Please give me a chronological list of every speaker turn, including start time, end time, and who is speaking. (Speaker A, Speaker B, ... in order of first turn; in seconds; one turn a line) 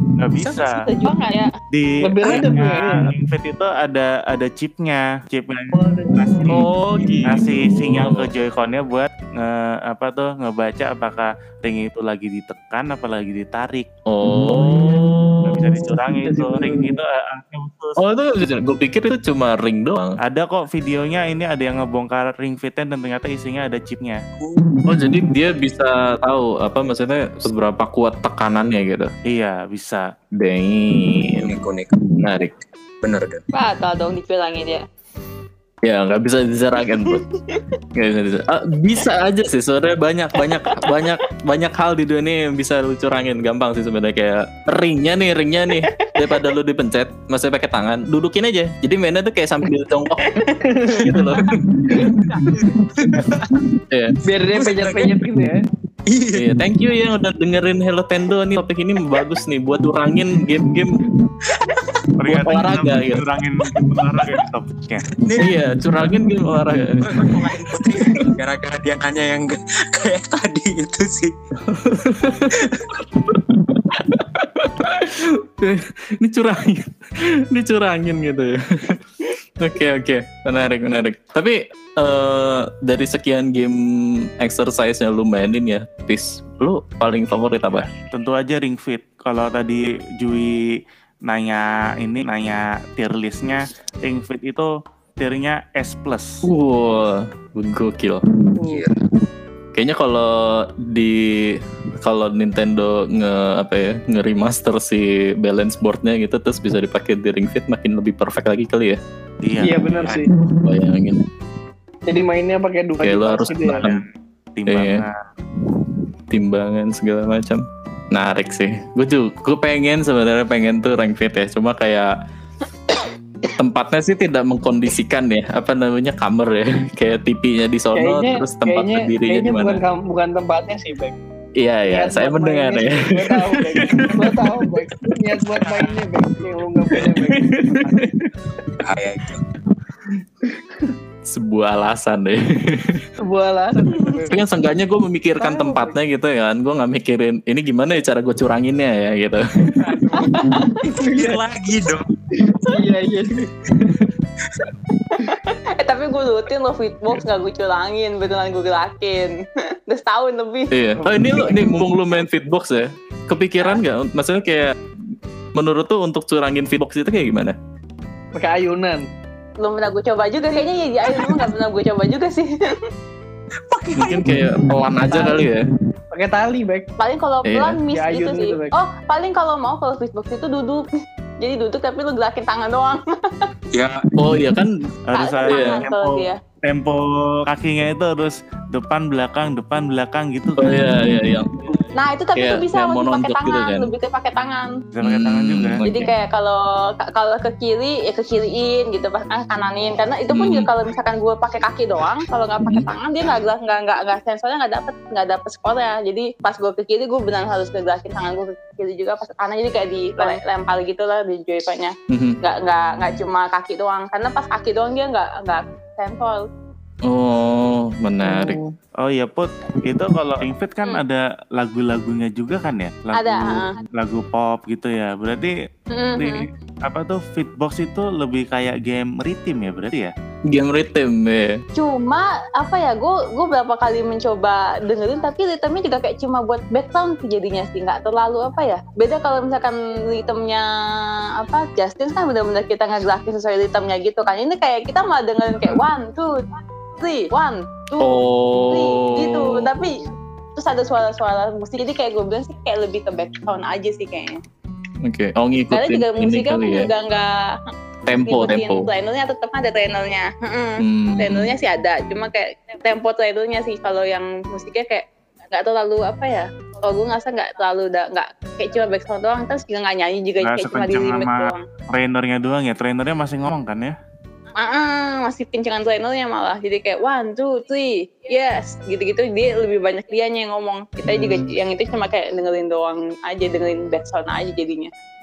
Speaker A: 0.2-0.8
Speaker B: 0.4-1.1
Speaker C: 0.6-1.5
Speaker A: 1.7-6.6
Speaker D: 2.0-3.0
Speaker D: 5.7-7.2
Speaker E: 6.5-8.3
Speaker A: 7.3-13.9
Speaker E: 14.1-15.7
Speaker D: 14.2-15.4
Speaker A: 15.4-18.0
Speaker D: 16.2-16.9
Speaker E: 18.0-20.2
Speaker A: 20.2-24.2
Speaker B: 24.4-24.7
Speaker E: 24.9-29.1
Speaker A: 29.3-30.0
Speaker E: 30.4-31.5
Speaker B: 31.4-31.9
Speaker E: 32.2-32.5
Speaker B: 33.0-33.4
Speaker C: 33.5-34.8
Speaker E: 35.8-37.2
Speaker C: 36.8-37.6
Speaker E: 37.9-54.2
Speaker C: 40.5-41.1
Speaker C: 50.2-50.6
Speaker D: 50.6-53.4
Speaker B: 51.6-53.4
Speaker D: 54.2-55.6
Speaker B: 54.5-55.4
Speaker B: 56.0-56.6
Speaker E: 56.3-61.1
Speaker B: 61.5-61.8
Speaker A: 62.2-65.0
Speaker E: 62.3-63.2
Speaker B: 65.1-66.2
Speaker E: 65.4-68.3
Speaker B: 67.0-71.3
Speaker E: 71.6-87.9
Speaker A: 87.7-90.7
Speaker A: 91.3-96.4
Speaker E: 96.4-98.2
Speaker B: 98.3-99.0
Speaker D: 98.6-98.8
Speaker E: 99.7-109.0
Speaker A: 109.4-110.3
Speaker D: 109.6-110.5
Speaker E: 110.5-111.3
Speaker D: 112.1-113.9
Speaker E: 113.0-114.0
Speaker A: 113.5-115.2
Speaker E: 114.7-115.0
Speaker E: 116.3-122.1
Speaker E: 123.5-129.8
Speaker D: 127.9-131.1
Speaker E: 131.6-134.7
Speaker D: 131.9-138.1
Speaker E: 136.9-138.3
Speaker B: 138.8-139.4
Speaker D: 140.4-140.9
Speaker E: 141.2-143.1
Speaker D: 143.2-144.4
Speaker E: 144.3-150.1
Speaker D: 145.4-145.9
Speaker D: 149.7-151.4
Speaker C: 150.1-150.9
Speaker B: 150.9-152.1
Speaker D: 152.4-154.0
Speaker B: 154.5-154.7
Speaker C: 155.1-160.7
Speaker E: 160.7-164.7
Speaker D: 161.0-161.8
Speaker E: 165.5-167.5
Speaker D: 168.3-169.1
Speaker C: 169.6-172.8
Speaker B: 173.7-174.5
Speaker E: 173.9-175.7
Speaker D: 174.7-175.5
Speaker D: 176.1-176.9
Speaker C: 177.0-180.9
Speaker E: 177.4-177.8
Speaker D: 177.9-178.7
Speaker C: 181.4-183.5
Speaker B: 183.7-184.5
Speaker E: 184.2-184.9
Speaker A: 185.1-191.0
Speaker C: 185.1-186.4
Speaker E: 185.4-185.8
Speaker E: 190.6-191.6
Speaker C: 191.9-194.7
Speaker E: 192.3-193.9
Speaker A: 194.9-195.8
Speaker E: 195.0-196.1
Speaker C: 195.8-216.4
Speaker E: 200.3-200.7
Speaker E: 212.1-212.4
Speaker E: 217.1-218.6
Speaker D: 218.2-218.7
Speaker A: 219.0-225.5
Speaker C: 223.1-223.7
Speaker C: 225.9-226.4
Speaker A: 226.2-230.1
Speaker E: 230.5-231.6
Speaker C: 231.8-246.4
Speaker C: 247.0-254.4
Speaker E: 248.0-249.7
Speaker E: 255.0-256.9
Speaker C: 255.7-257.6
Speaker E: 258.1-258.9
Speaker C: 258.2-271.6
Speaker E: 260.8-261.5
Speaker A: 270.4-273.9
Speaker C: 274.6-284.9
Speaker E: 281.1-281.5